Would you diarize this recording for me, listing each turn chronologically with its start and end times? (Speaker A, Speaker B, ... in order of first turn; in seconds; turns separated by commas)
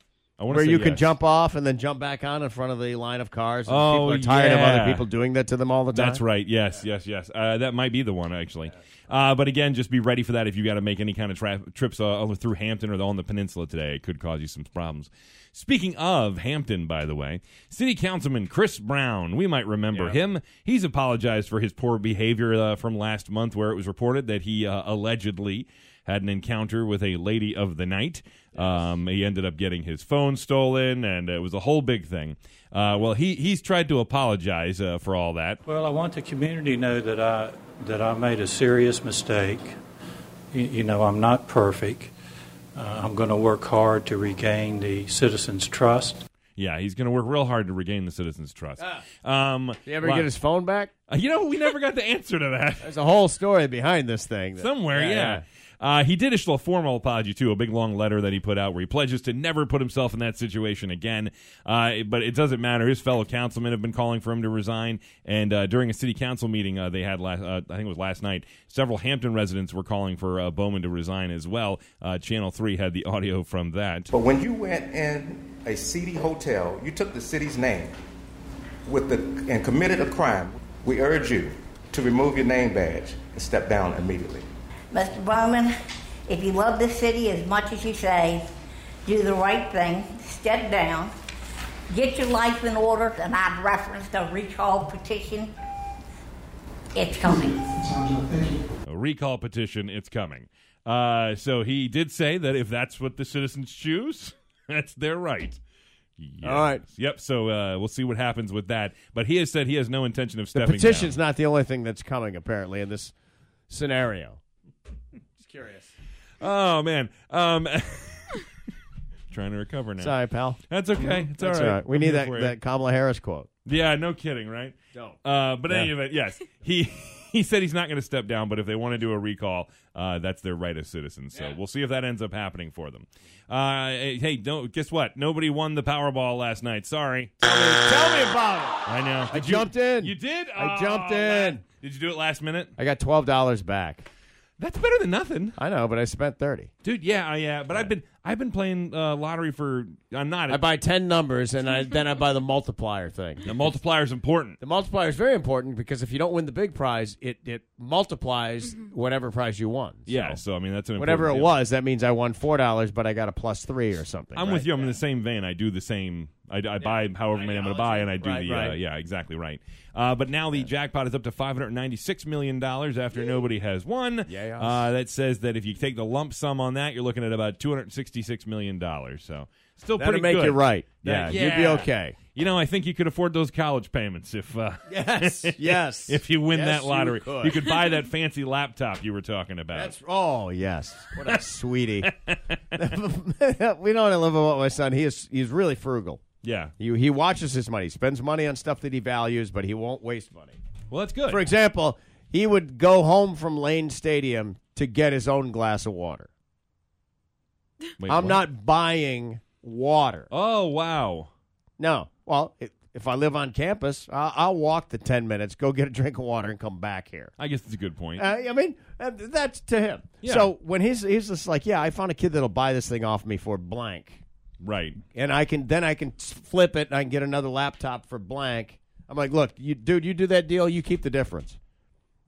Speaker A: 0.4-1.1, Speaker B: 0.5-6.2, Speaker A: 3.7-5.0, Speaker A: 5.9-35.6, Speaker B: 19.9-20.2, Speaker B: 28.6-28.9, Speaker C: 35.7-39.8, Speaker C: 40.5-42.1, Speaker C: 42.8-46.2, Speaker A: 46.6-50.3, Speaker B: 48.8-49.0, Speaker B: 49.8-50.9, Speaker A: 51.1-52.9, Speaker B: 52.8-55.4, Speaker A: 54.6-74.1, Speaker D: 74.1-78.0, Speaker D: 78.9-84.5, Speaker E: 84.9-85.7, Speaker E: 86.3-88.5, Speaker E: 89.1-91.1, Speaker E: 91.9-95.5, Speaker E: 96.9-97.9, Speaker D: 98.2-98.6, Speaker A: 98.9-105.6, Speaker A: 106.2-111.2, Speaker B: 106.4-106.8, Speaker B: 110.5-113.1, Speaker B: 113.7-114.4, Speaker B: 115.4-115.9, Speaker A: 116.4-118.5, Speaker A: 119.3-120.2, Speaker B: 120.0-123.5, Speaker A: 120.7-122.6, Speaker A: 123.7-137.4, Speaker B: 124.9-125.9, Speaker B: 137.4-141.6, Speaker A: 138.8-142.8, Speaker B: 142.8-144.1, Speaker A: 144.6-145.6, Speaker B: 145.6-146.7, Speaker A: 146.8-150.7, Speaker B: 150.5-153.5, Speaker A: 153.4-154.6, Speaker B: 154.6-160.4, Speaker A: 160.1-161.5, Speaker B: 161.0-165.0, Speaker A: 164.3-189.9, Speaker B: 166.8-168.8, Speaker B: 174.3-174.9, Speaker B: 180.0-182.2, Speaker B: 184.9-187.7, Speaker B: 189.7-192.1, Speaker A: 192.0-192.6, Speaker B: 192.7-196.2, Speaker A: 196.4-196.7, Speaker B: 196.8-200.6, Speaker A: 200.9-201.4, Speaker B: 201.3-206.3, Speaker A: 208.0-208.4, Speaker B: 208.0-210.3, Speaker A: 210.3-211.3, Speaker B: 211.8-217.3, Speaker A: 217.4-218.3, Speaker B: 218.2-224.2, Speaker A: 220.2-220.5, Speaker A: 224.6-225.0, Speaker B: 225.1-231.6